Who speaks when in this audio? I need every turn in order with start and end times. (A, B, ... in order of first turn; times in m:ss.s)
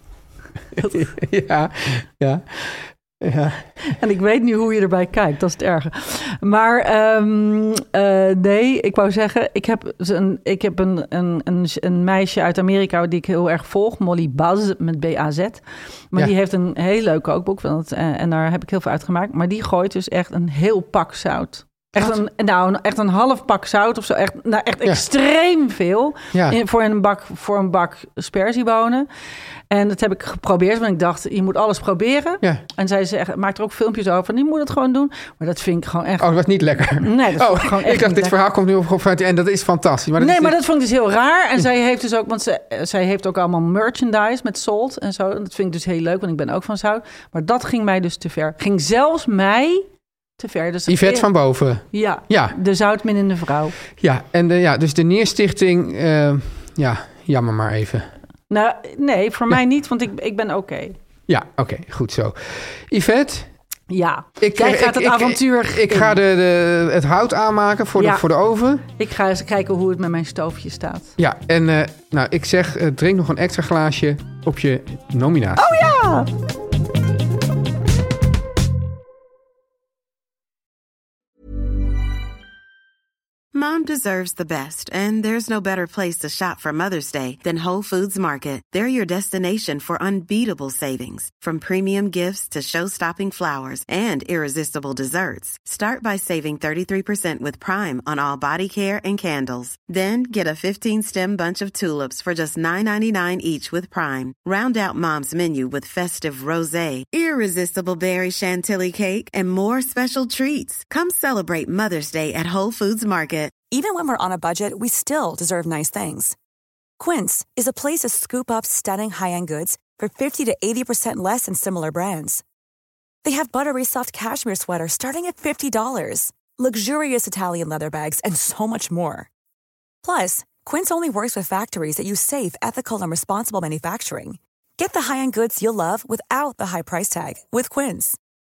0:00.7-0:03.6 A
0:03.8-0:29.1 B
0:26.3-0:26.6 A
0:29.7-0:36.3 B
0:36.2-0:40.6 A
0:37.0-0:38.3 B
0:40.2-0:49.9 B
0:50.4-0:51.3 B
0:50.9-0:52.6 A
0:51.9-0:53.8 B
0:53.9-0:58.1 A
0:58.5-1:00.9 B
1:01.3-1:03.5 A
1:03.9-1:06.2 B
1:04.4-1:08.8 A
1:08.0-1:08.2 B
1:08.9-1:11.1 B
1:11.2-1:15.7 A
1:15.6-1:16.3 B
1:23.5-1:53.6 C
1:53.7-1:56.4 D
1:57.0-2:02.4 D
2:03.2-2:09.3 D
2:10.0-2:18.2 D